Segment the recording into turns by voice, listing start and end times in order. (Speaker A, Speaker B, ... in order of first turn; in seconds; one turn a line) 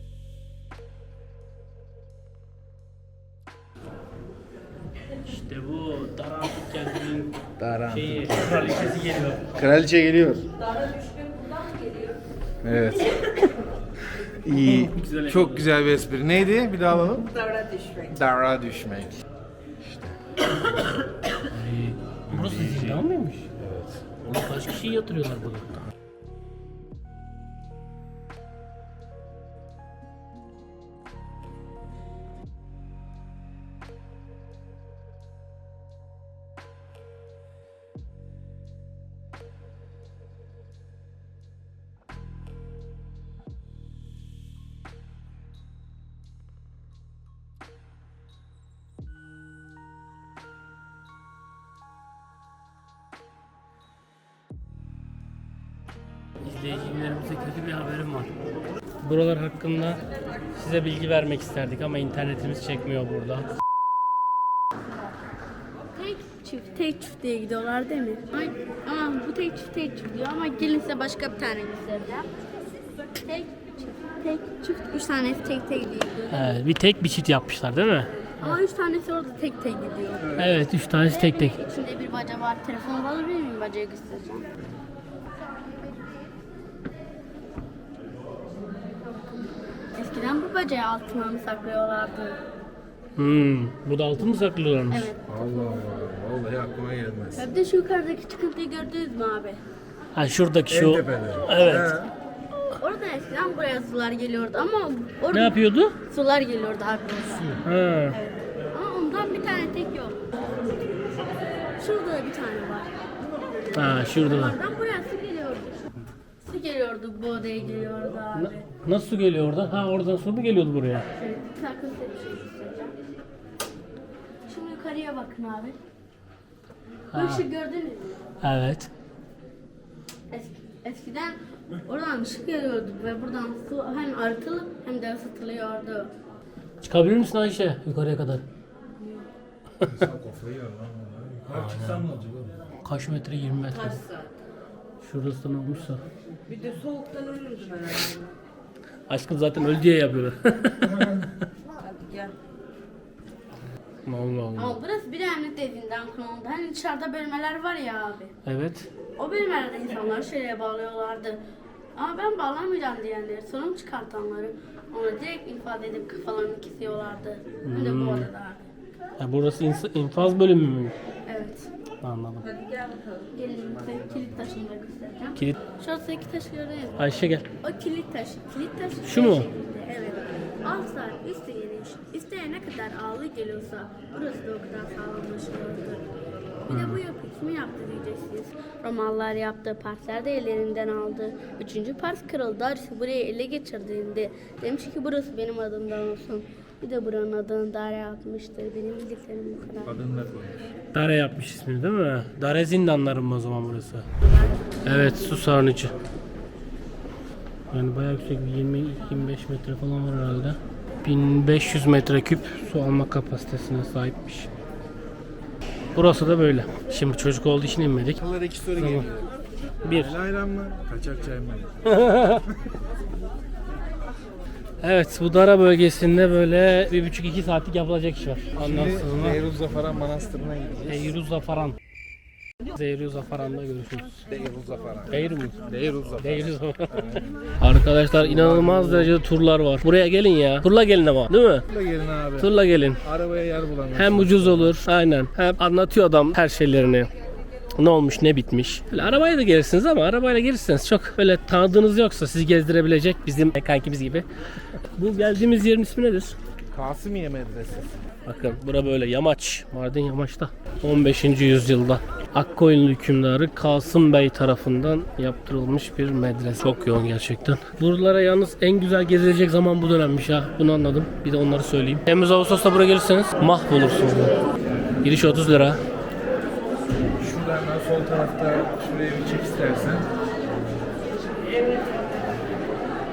Speaker A: 5.2-9.5
Speaker B: 7.6-9.0
Speaker B: 9.5-10.5
Speaker B: 12.6-13.5
Speaker B: 14.2-17.3
Speaker A: 14.5-15.7
Speaker C: 17.5-17.9
Speaker B: 17.9-19.2
Speaker B: 19.8-20.2
Speaker B: 21.5-23.0
Speaker A: 21.6-23.5
Speaker B: 23.6-24.2
Speaker A: 24.2-25.8
Speaker A: 56.4-58.3
Speaker A: 59.0-60.0
Speaker A: 60.5-63.5
Speaker D: 65.9-72.3
Speaker D: 73.2-76.5
Speaker A: 76.3-78.6
Speaker D: 78.4-80.4
Speaker B: 80.2-80.5
Speaker A: 80.3-81.6
Speaker D: 81.1-84.5
Speaker D: 90.0-92.4
Speaker A: 93.2-95.1
Speaker D: 94.9-95.7
Speaker B: 95.3-97.5
Speaker D: 97.3-99.6
Speaker A: 100.1-101.9
Speaker B: 100.7-102.1
Speaker D: 102.8-110.2
Speaker A: 105.3-106.0
Speaker A: 107.6-108.2
Speaker D: 111.8-112.9
Speaker A: 113.7-114.6
Speaker D: 113.8-118.7
Speaker A: 118.3-121.1
Speaker D: 121.1-123.0
Speaker D: 124.5-125.8
Speaker A: 127.1-127.5
Speaker D: 127.1-128.2
Speaker A: 128.4-128.9
Speaker D: 130.3-136.1
Speaker A: 136.8-138.4
Speaker B: 139.8-142.6
Speaker A: 141.5-142.0
Speaker A: 142.8-144.0
Speaker C: 143.7-144.3
Speaker A: 145.0-146.0
Speaker C: 146.5-148.3
Speaker A: 149.1-151.3
Speaker B: 150.8-151.3
Speaker C: 151.8-152.3
Speaker A: 154.0-154.8
Speaker D: 154.6-158.3
Speaker A: 158.4-158.9
Speaker D: 159.2-161.4
Speaker D: 161.9-168.6
Speaker A: 167.6-168.3
Speaker A: 169.2-170.9
Speaker D: 171.3-171.7
Speaker A: 172.0-172.5
Speaker C: 172.4-173.3
Speaker D: 173.3-177.0
Speaker A: 175.3-175.6
Speaker A: 176.9-177.5
Speaker D: 177.6-186.1
Speaker A: 179.0-179.5
Speaker D: 186.7-199.9
Speaker A: 186.7-187.0
Speaker B: 199.8-200.7
Speaker A: 200.9-204.1
Speaker A: 204.8-205.9
Speaker A: 207.7-214.5
Speaker A: 215.9-218.2
Speaker B: 218.2-219.3
Speaker A: 218.8-219.1
Speaker A: 219.8-220.1
Speaker B: 219.9-221.8
Speaker A: 221.9-222.4
Speaker A: 224.8-229.4
Speaker B: 228.6-231.2
Speaker A: 230.9-231.8
Speaker A: 232.7-234.3
Speaker B: 234.3-237.3
Speaker A: 235.1-235.6
Speaker A: 236.2-241.6
Speaker B: 238.1-239.2
Speaker B: 241.7-244.8
Speaker A: 242.4-243.0
Speaker A: 243.9-247.1
Speaker A: 247.8-254.3
Speaker A: 254.9-256.3
Speaker B: 256.7-258.0
Speaker A: 258.2-274.3
Speaker A: 275.0-275.8
Speaker B: 277.0-280.1